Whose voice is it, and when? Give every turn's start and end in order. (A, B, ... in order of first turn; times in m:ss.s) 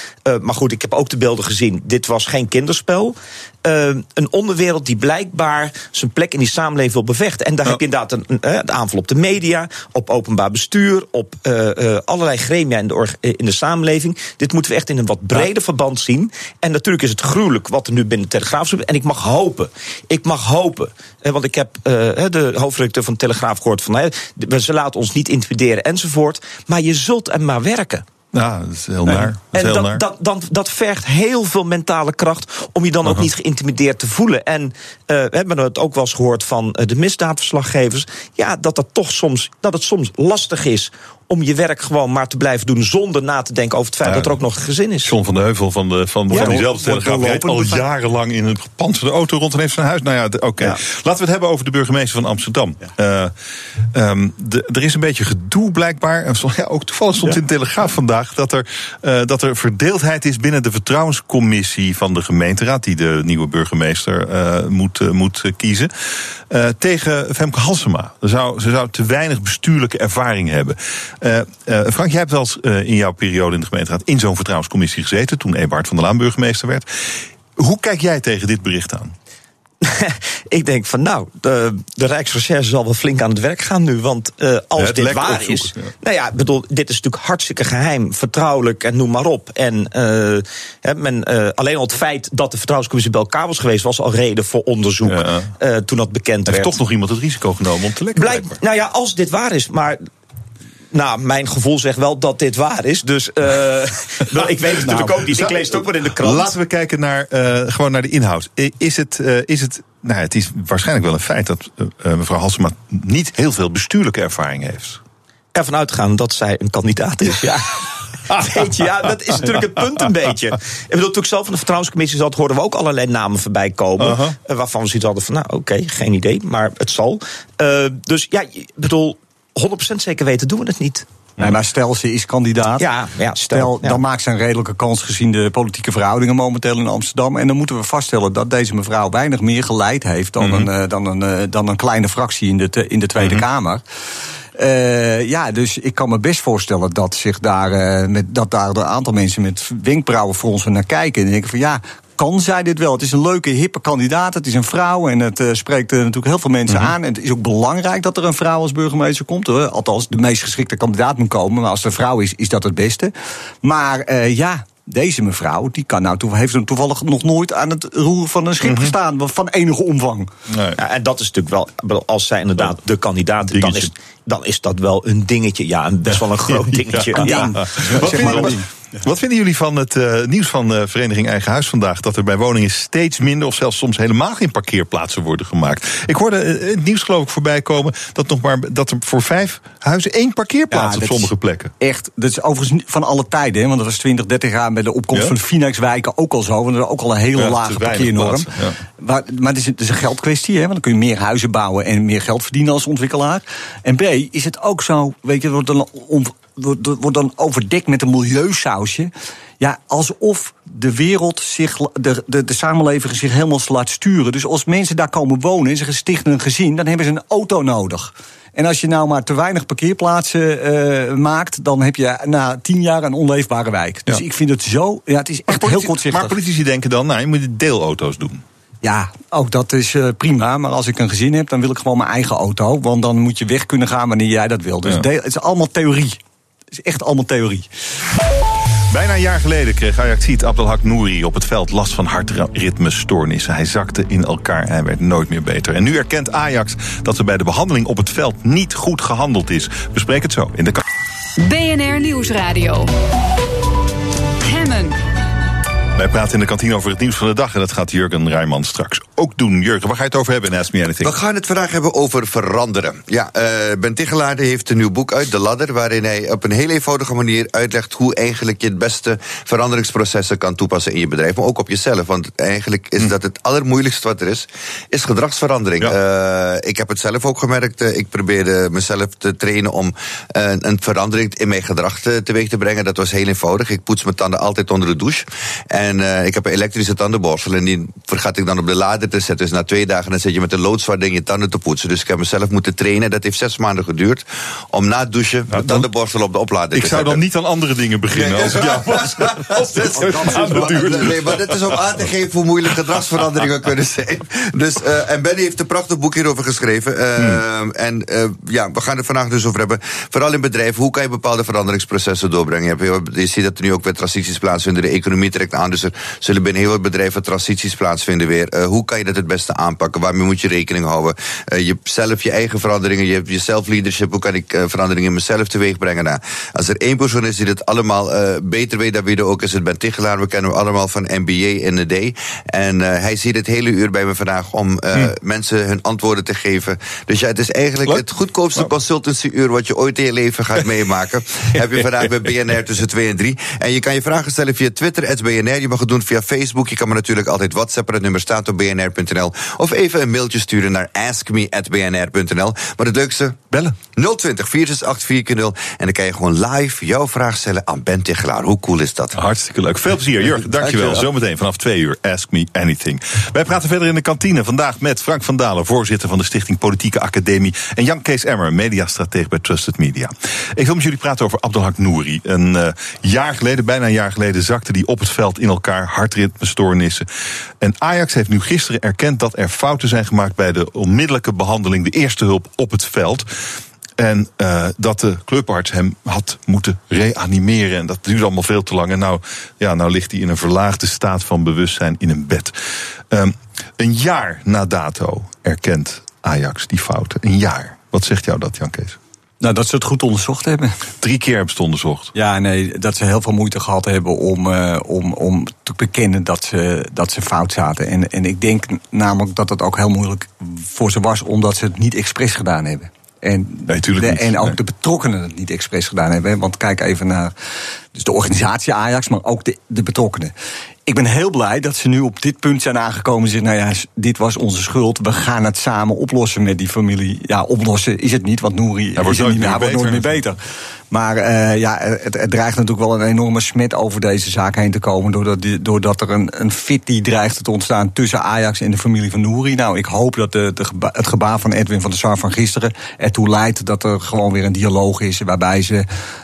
0:00.3-0:28.0 A
0:28.3-0:30.0 B
0:29.1-0:45.2 A
0:44.0-0:44.4 B
0:45.0-0:53.3 B
0:46.3-0:47.8 C
0:46.3-0:46.6 A
0:53.9-1:05.9 B
1:06.5-1:19.1 B
1:19.8-1:36.8 A
1:24.8-1:25.9 B
1:35.1-1:35.5 B
1:36.5-1:38.6 B
1:38.2-1:40.0 A
1:40.9-1:46.6 A
1:44.8-1:45.2 C
1:44.9-1:55.0 B
1:55.6-2:11.1 A
1:58.3-1:58.6 B
2:04.0-2:04.4 B
2:11.4-2:23.8 C
2:12.8-2:14.0 A
2:20.4-2:20.7 B
2:24.6-2:50.3 C
2:36.7-2:36.9 B
2:48.6-2:48.9 B
2:50.5-2:50.8 B
2:50.8-2:58.5 A
2:53.5-2:53.9 B
2:56.5-3:11.7 B
2:57.1-2:58.7 C
3:10.7-3:46.4 C
3:17.4-3:18.8 B
3:45.5-3:48.4 B
3:48.8-3:56.2 C
3:56.7-3:57.7 C
3:58.9-4:10.8 B
4:11.4-4:12.9 D
4:14.4-4:15.0 D
4:16.0-4:21.2 B
4:21.0-4:57.2 E
4:55.5-4:55.9 B
4:56.7-5:01.9 B
4:58.1-5:53.4 E
5:00.0-5:00.7 C
5:53.9-5:59.2 E
5:59.1-6:17.1 B
6:00.6-6:01.1 E
6:17.6-6:23.3 B
6:24.0-6:32.5 B
6:33.1-6:39.0 B
6:39.4-6:40.8 C
6:41.0-6:42.1 B
6:42.1-6:57.3 C
6:53.7-6:54.6 B
6:57.9-7:00.3 C
7:00.9-7:10.4 C
7:09.0-7:10.2 B
7:10.9-7:25.8 C